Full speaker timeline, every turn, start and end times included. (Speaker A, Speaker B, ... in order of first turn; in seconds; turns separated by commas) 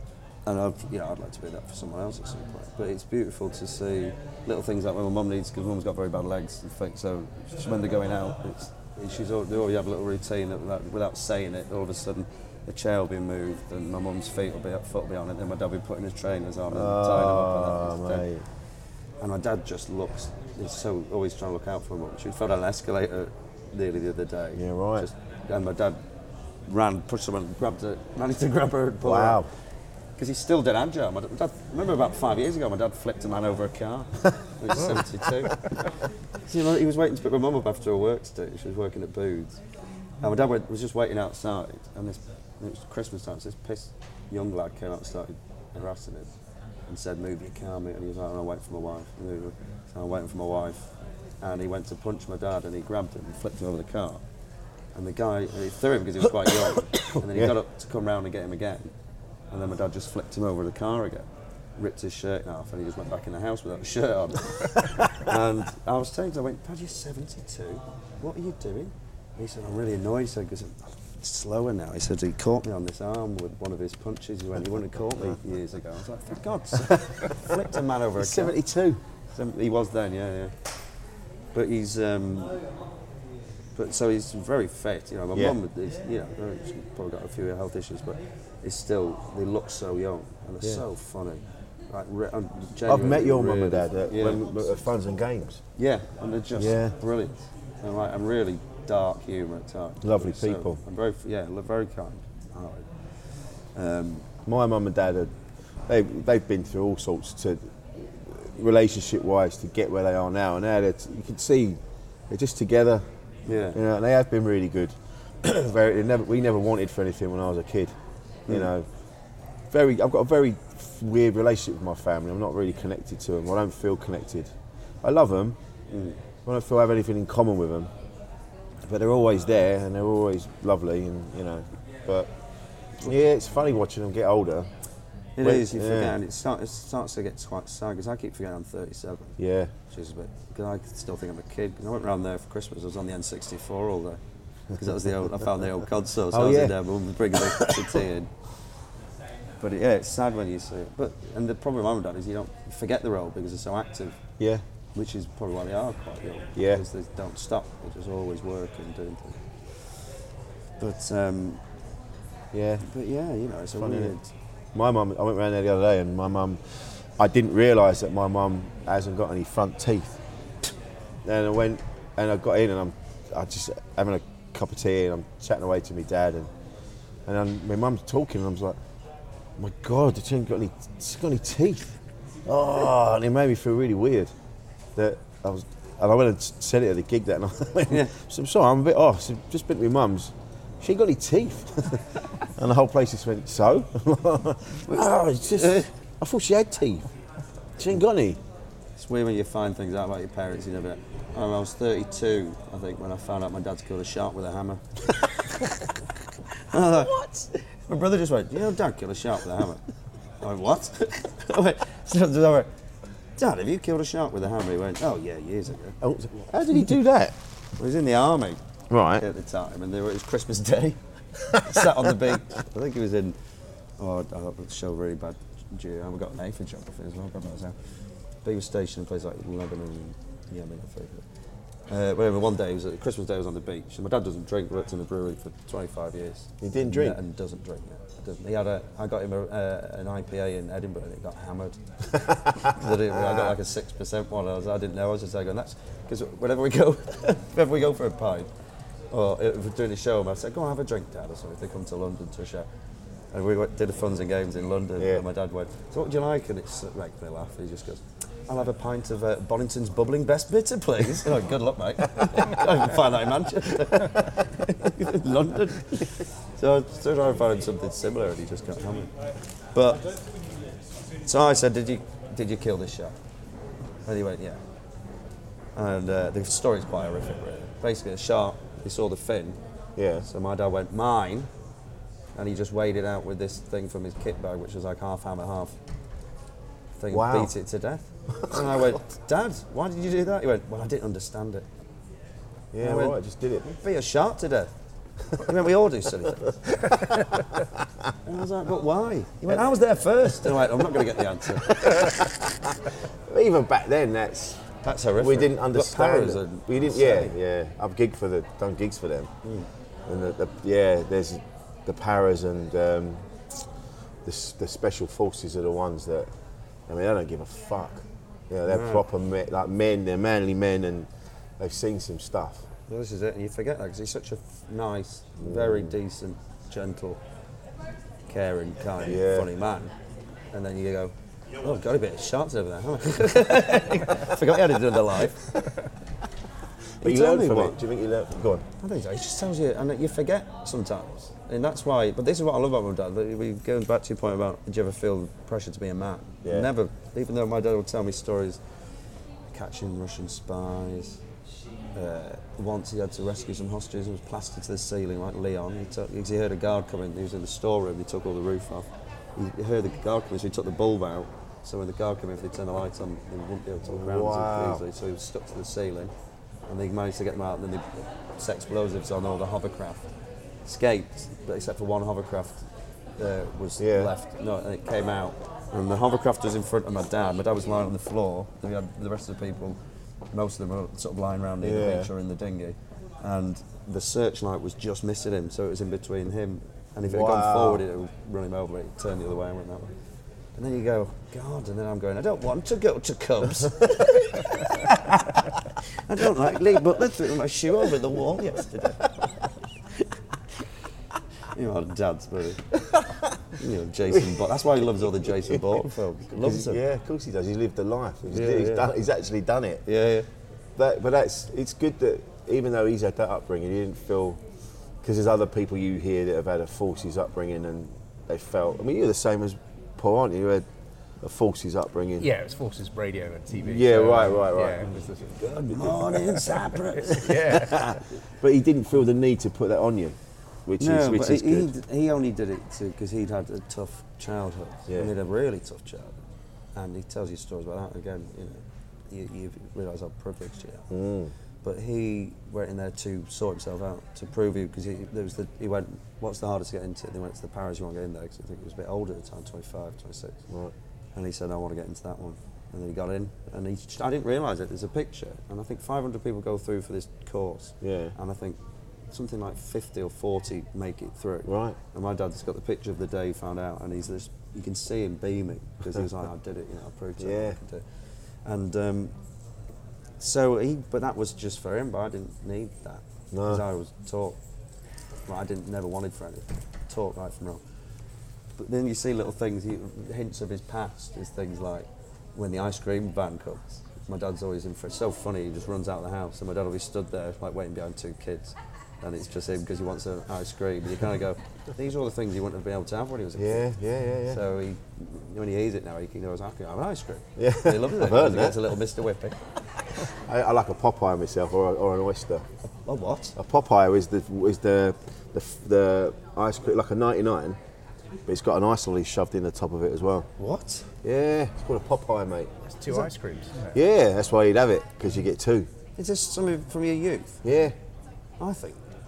Speaker A: 0.4-18.2, Speaker B: 16.7-18.4, Speaker A: 19.2-26.0, Speaker B: 24.5-25.1, Speaker A: 26.6-29.4, Speaker B: 29.0-29.5, Speaker A: 30.2-35.8, Speaker B: 34.7-35.5, Speaker A: 36.4-39.6, Speaker A: 40.2-46.3, Speaker A: 46.9-54.2, Speaker A: 54.9-58.9, Speaker B: 56.6-57.5, Speaker A: 59.5-78.6, Speaker B: 76.8-77.5, Speaker B: 78.2-79.0, Speaker A: 79.3-80.6, Speaker A: 81.5-82.6, Speaker A: 83.7-94.7, Speaker B: 85.3-85.6, Speaker B: 92.8-95.6, Speaker A: 95.8-104.2, Speaker B: 96.5-97.0, Speaker B: 100.0-100.8, Speaker B: 104.5-105.3, Speaker B: 105.9-113.0, Speaker A: 113.5-113.8, Speaker B: 113.7-117.9, Speaker B: 118.5-118.9, Speaker B: 119.7-124.5, Speaker B: 125.0-125.6, Speaker A: 125.9-126.2, Speaker B: 126.4-127.9, Speaker B: 128.8-132.3, Speaker B: 133.0-134.7, Speaker A: 135.4-139.4, Speaker B: 135.4-136.2, Speaker B: 139.4-139.7, Speaker A: 139.9-148.3, Speaker B: 146.3-148.0, Speaker A: 149.6-154.2, Speaker A: 154.9-160.1, Speaker B: 156.6-156.8, Speaker A: 160.8-161.6, Speaker B: 162.5-162.8, Speaker A: 162.8-164.3, Speaker B: 163.7-164.2, Speaker B: 164.7-170.2, Speaker B: 171.2-176.5, Speaker B: 177.2-178.8, Speaker B: 179.6-184.3, Speaker B: 184.9-197.1, Speaker A: 195.6-195.9, Speaker B: 197.8-198.4, Speaker A: 199.0-204.8, Speaker A: 206.7-209.8, Speaker A: 210.4-212.7, Speaker A: 213.4-216.0, Speaker B: 216.0-217.3, Speaker A: 217.8-218.6, Speaker B: 218.9-219.2, Speaker A: 219.2-223.3, Speaker A: 224.0-227.8, Speaker A: 228.4-231.2, Speaker A: 231.9-248.5, Speaker B: 236.6-237.2, Speaker B: 243.2-243.5, Speaker A: 249.1-252.7, Speaker A: 253.3-269.1, Speaker B: 255.0-255.2, Speaker A: 269.7-270.0, Speaker A: 271.2-273.2, Speaker A: 274.0-274.6, Speaker A: 275.7-279.6, Speaker B: 279.9-280.3, Speaker A: 280.2-281.5, Speaker A: 282.3-285.8, Speaker A: 287.0-291.6, Speaker B: 287.1-287.5, Speaker B: 288.4-288.8, Speaker B: 292.7-293.8, Speaker A: 292.8-294.7, Speaker A: 295.3-296.6, Speaker B: 296.8-297.1, Speaker A: 298.2-301.9, Speaker B: 301.6-309.3, Speaker A: 304.8-307.3, Speaker B: 310.1-313.3, Speaker B: 314.2-316.3, Speaker B: 316.9-322.6, Speaker A: 318.6-319.1, Speaker A: 322.9-327.2, Speaker B: 325.4-325.9, Speaker A: 328.3-329.9, Speaker B: 329.0-329.5, Speaker A: 330.5-335.5, Speaker B: 337.0-338.7, Speaker A: 337.0-337.8, Speaker A: 338.8-348.6, Speaker B: 346.4-346.7, Speaker A: 349.5-351.2, Speaker A: 351.9-366.1, Speaker B: 363.8-364.8, Speaker A: 366.7-370.1, Speaker A: 370.6-379.8, Speaker B: 373.8-374.1, Speaker A: 380.3-389.9, Speaker B: 381.6-382.1, Speaker B: 387.0-387.8, Speaker A: 390.6-394.9, Speaker A: 396.0-399.1, Speaker A: 401.5-402.6, Speaker B: 402.9-403.3, Speaker A: 403.6-406.8, Speaker B: 405.0-405.6, Speaker B: 406.3-409.8, Speaker A: 408.3-408.9, Speaker A: 409.9-410.3, Speaker B: 410.8-414.4, Speaker B: 415.0-420.7, Speaker B: 421.2-422.3, Speaker C: 422.2-425.7, Speaker B: 423.6-424.9, Speaker A: 425.7-427.6, Speaker B: 425.8-426.2, Speaker C: 427.0-428.0, Speaker B: 427.3-431.7, Speaker A: 430.8-436.2, Speaker A: 436.7-440.9, Speaker B: 440.9-441.3, Speaker A: 441.6-450.4, Speaker A: 451.1-458.6, Speaker B: 457.8-458.1, Speaker A: 459.1-469.1, Speaker B: 461.4-461.8, Speaker B: 467.2-467.6, Speaker A: 470.2-474.4, Speaker B: 473.3-473.6, Speaker A: 475.3-477.6, Speaker A: 478.6-493.7, Speaker B: 493.4-494.4, Speaker A: 494.3-499.4, Speaker B: 497.4-498.6, Speaker B: 500.0-502.4, Speaker A: 502.8-503.4, Speaker B: 503.4-507.6, Speaker B: 508.2-510.3, Speaker A: 510.4-510.9, Speaker B: 511.0-512.5, Speaker C: 512.7-513.7, Speaker B: 513.7-515.7, Speaker A: 516.0-517.4, Speaker B: 517.4-517.7, Speaker A: 518.4-518.8